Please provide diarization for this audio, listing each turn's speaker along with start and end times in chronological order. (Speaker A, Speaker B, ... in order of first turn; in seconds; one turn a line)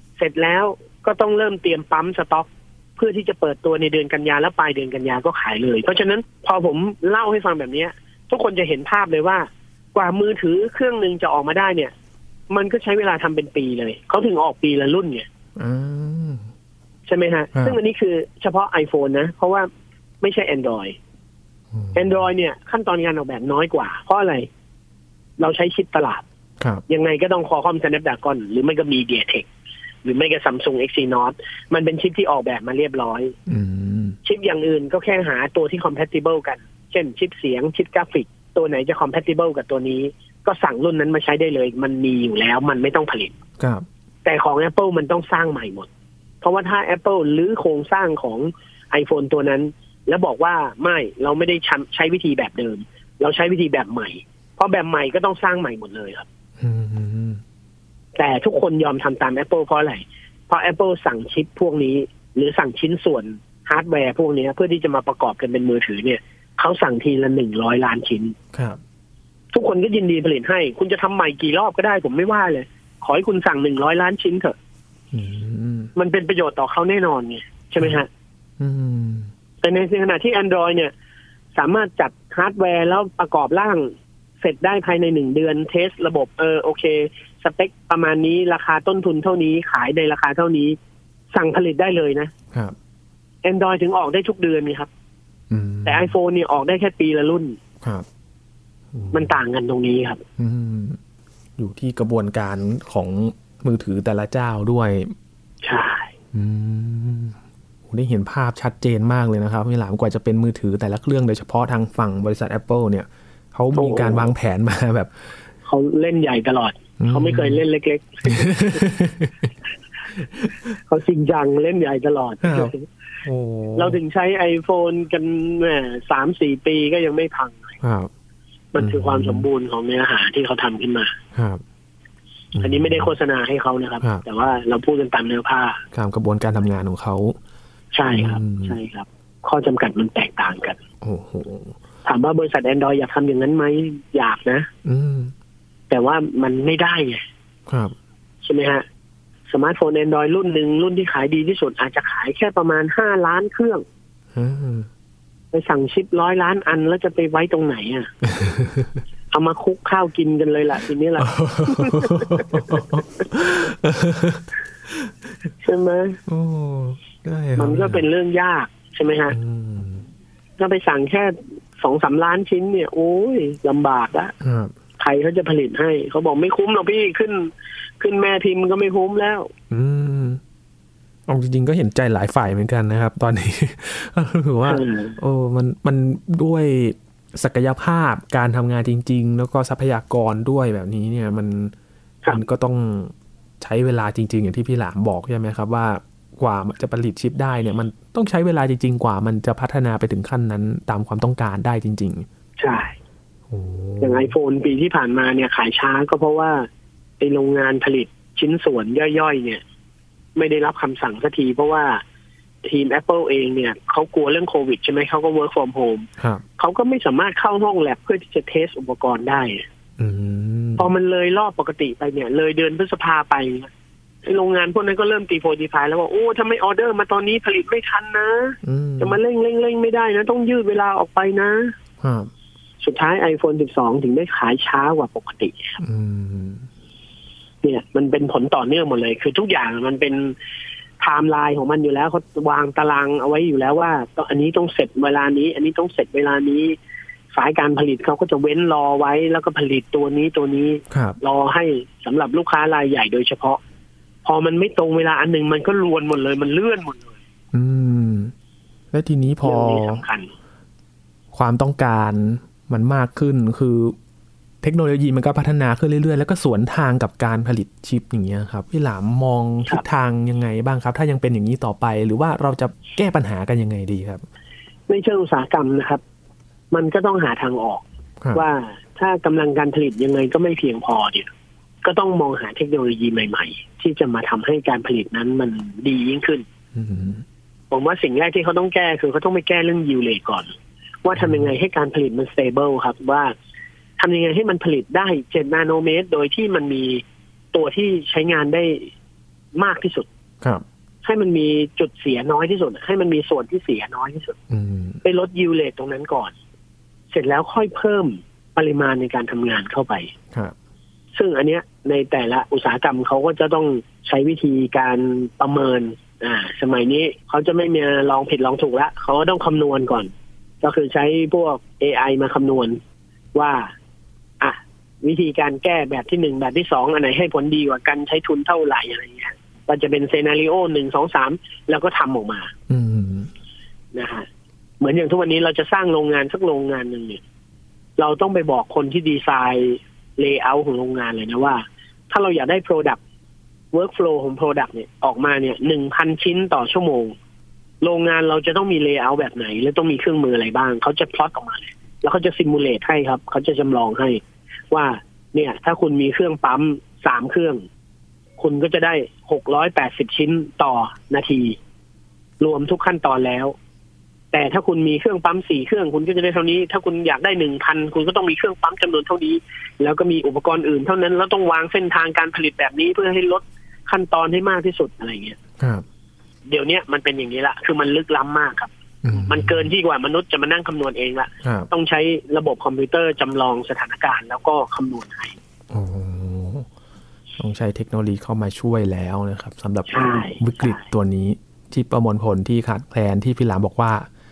Speaker A: 0.2-11.9
Speaker A: 12.5-15.3
Speaker B: 15.6-16.5
Speaker A: 17.1-19.7
Speaker A: 20.2-21.0
Speaker B: 21.7-22.2
Speaker A: 21.9-24.5
Speaker A: 25.4-26.2
Speaker A: 26.9-29.5
Speaker A: 30.0-33.3
Speaker B: 33.5-34.2
Speaker A: 34.2-43.3
Speaker B: 43.6-43.8
Speaker A: 44.2-45.9
Speaker A: 46.4-56.3
Speaker B: 56.6-57.4
Speaker A: 58.1-68.3
Speaker B: 68.5-68.8
Speaker A: 69.5-74.5
Speaker B: 75.1-75.9
Speaker A: 76.0-78.1
Speaker B: 78.6-79.3
Speaker A: 79.6-80.9
Speaker A: 81.5-90.8
Speaker A: 91.3-92.3
Speaker A: 93.4-94.9
Speaker B: 95.5-96.1
Speaker A: 95.8-97.6
Speaker B: 98.9-99.4
Speaker A: 99.1-100.2
Speaker B: 100.4-101.0
Speaker B: 101.6-105.1
Speaker A: 105.6-106.1
Speaker B: 106.3-115.1
Speaker A: 113.7-114.3
Speaker A: 115.7-118.6
Speaker B: 117.0-117.6
Speaker B: 118.2-119.5
Speaker B: 120.1-120.8
Speaker A: 120.9-122.8
Speaker B: 122.4-122.7
Speaker B: 123.2-124.0
Speaker A: 123.8-127.7
Speaker B: 127.8-128.1
Speaker A: 128.7-131.1
Speaker B: 128.8-129.5
Speaker B: 131.3-131.6
Speaker B: 132.5-133.1
Speaker A: 132.6-135.8
Speaker B: 135.9-137.3
Speaker A: 137.9-140.8
Speaker B: 138.1-138.8
Speaker B: 141.0-141.8
Speaker A: 142.0-144.7
Speaker B: 144.8-145.3
Speaker A: 145.9-147.2
Speaker B: 147.7-147.9
Speaker A: 148.4-148.8
Speaker A: 149.5-153.8
Speaker B: 154.3-154.9
Speaker A: 155.5-158.1
Speaker B: 158.2-159.0
Speaker A: 159.3-162.8
Speaker B: 161.2-165.3
Speaker A: 165.6-166.2
Speaker B: 166.2-168.1
Speaker A: 167.6-169.3
Speaker B: 169.3-170.1
Speaker A: 170.6-174.3
Speaker B: 174.4-174.7
Speaker A: 175.0-179.5
Speaker B: 179.7-180.4
Speaker B: 181.3-191.7
Speaker A: 184.7-185.2
Speaker B: 192.3-202.3
Speaker A: 202.6-202.9
Speaker B: 203.5-204.3
Speaker A: 204.0-206.7
Speaker A: 207.2-209.6
Speaker A: 210.3-212.0
Speaker A: 212.6-219.6
Speaker B: 216.2-216.4
Speaker B: 220.0-220.9
Speaker A: 220.8-223.7
Speaker A: 224.2-231.7
Speaker B: 228.6-229.2
Speaker B: 232.0-232.3
Speaker A: 232.8-235.8
Speaker B: 235.8-236.7
Speaker A: 237.6-240.3
Speaker A: 241.0-246.8
Speaker A: 247.3-253.6
Speaker B: 250.9-251.2
Speaker A: 254.2-257.1
Speaker B: 257.5-258.3
Speaker B: 258.9-260.0
Speaker A: 259.4-260.3
Speaker B: 261.3-263.9
Speaker B: 264.6-274.2
Speaker A: 274.9-276.0
Speaker A: 276.7-281.3
Speaker A: 281.8-286.4
Speaker B: 286.7-287.2
Speaker A: 287.7-290.5
Speaker A: 291.0-293.3
Speaker B: 291.2-291.5
Speaker A: 294.0-298.9
Speaker A: 299.6-300.1
Speaker A: 301.0-304.4
Speaker B: 304.5-305.0
Speaker A: 305.0-306.3
Speaker A: 307.1-310.1
Speaker A: 311.1-320.1
Speaker A: 320.6-322.8
Speaker A: 323.3-323.7
Speaker A: 324.4-332.5
Speaker B: 332.7-333.3
Speaker A: 333.9-334.2
Speaker A: 334.8-337.2
Speaker A: 338.0-343.0
Speaker A: 343.7-347.1
Speaker A: 347.8-357.6
Speaker A: 358.4-361.6
Speaker A: 362.4-363.5
Speaker A: 364.3-375.4
Speaker B: 375.6-375.8
Speaker A: 376.5-385.3
Speaker B: 379.0-379.7
Speaker B: 381.4-381.7
Speaker B: 385.7-386.7
Speaker B: 387.4-394.1
Speaker A: 389.9-390.8